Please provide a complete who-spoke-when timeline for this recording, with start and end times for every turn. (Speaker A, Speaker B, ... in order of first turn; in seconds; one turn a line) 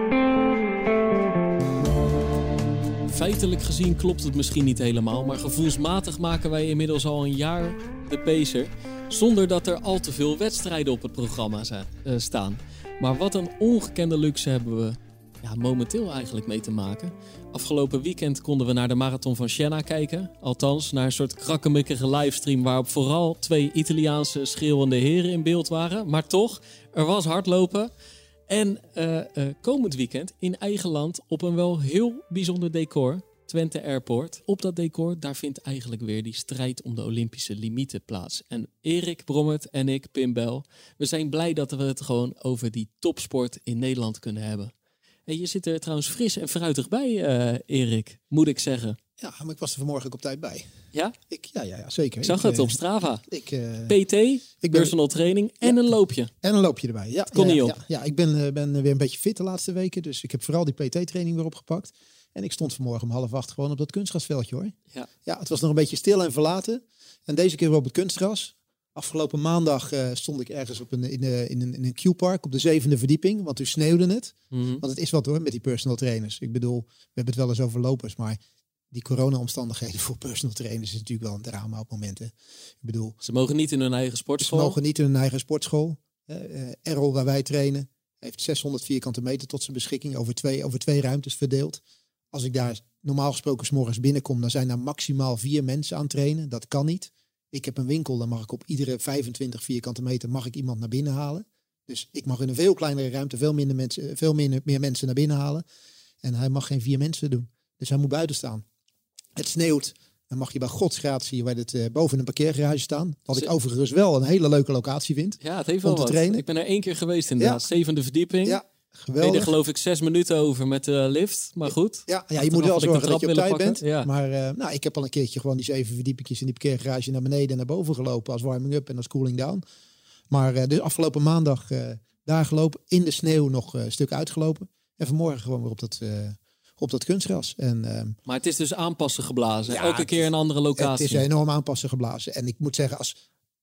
Speaker A: 3.1-27.9
Speaker A: 28.5-44.7
Speaker A: 45.3-49.0
Speaker B: 49.2-50.7
Speaker B: 51.3-54.0
Speaker A: 52.2-53.2
Speaker A: 53.9-56.3
Speaker B: 54.6-55.0
Speaker B: 55.6-55.9
Speaker B: 56.4-78.4
Speaker A: 57.3-57.8
Speaker A: 74.5-74.8
Speaker B: 78.9-83.2
Speaker A: 83.2-84.8
Speaker B: 84.4-105.6
Speaker B: 106.2-108.7
Speaker B: 109.3-116.4
Speaker A: 115.4-118.6
Speaker B: 117.4-117.6
Speaker B: 118.4-119.5
Speaker A: 119.2-124.1
Speaker B: 122.1-129.6
Speaker B: 130.3-138.2
Speaker A: 138.3-141.2
Speaker B: 139.7-140.2
Speaker B: 140.8-143.2